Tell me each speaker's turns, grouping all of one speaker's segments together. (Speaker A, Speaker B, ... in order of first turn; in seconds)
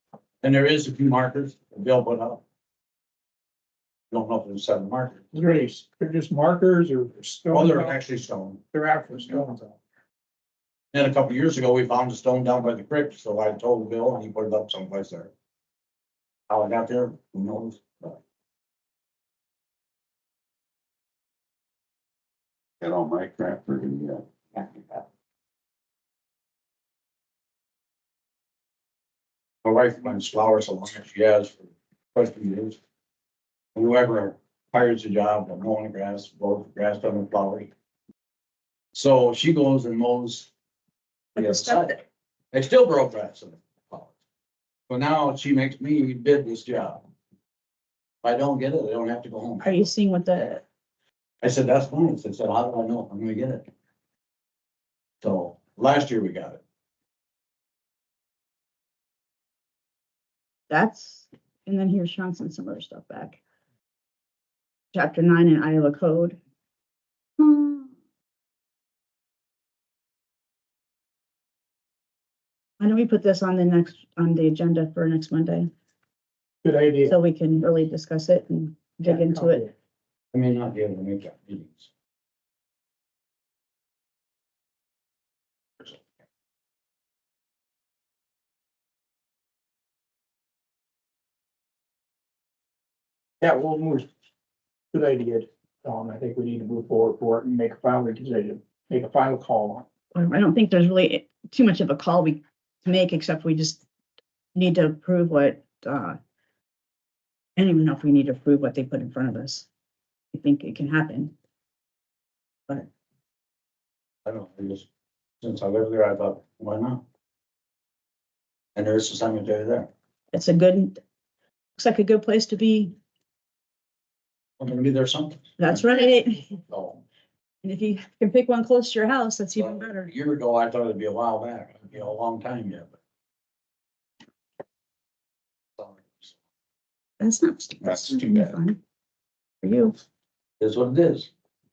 Speaker A: 0.4-2.4, 4.1-5.2, 7.5-8.6, 10.9-15.3, 16.5-18.2, 29.6-32.8, 33.7-37.7, 38.9-40.5, 41.4-42.0, 42.5-44.1, 44.9-47.0, 48.2-49.9, 51.4-53.6, 55.2-56.6, 80.3-81.9, 114.2-114.8, 115.4-117.0, 118.8-119.9, 124.6-125.8, 126.7-127.0, 129.6-132.9, 135.8-136.3, 140.6-141.3
Speaker B: 5.3-8.0, 8.7-9.8, 76.6-77.1, 79.0-79.7, 93.4-94.1, 94.9-99.8
Speaker C: 22.8-25.0, 137.8-138.5
Speaker D: 41.4-42.0, 49.6-50.6, 60.7-63.4, 64.9-66.4, 67.4-67.9, 72.8-75.7, 77.1-79.6, 100.1-103.8, 104.5-106.2, 107.6-109.7, 110.3-111.3, 120.3-121.0, 121.8-122.9, 125.6-126.6, 127.6-130.1, 137.2-138.8, 139.6-140.0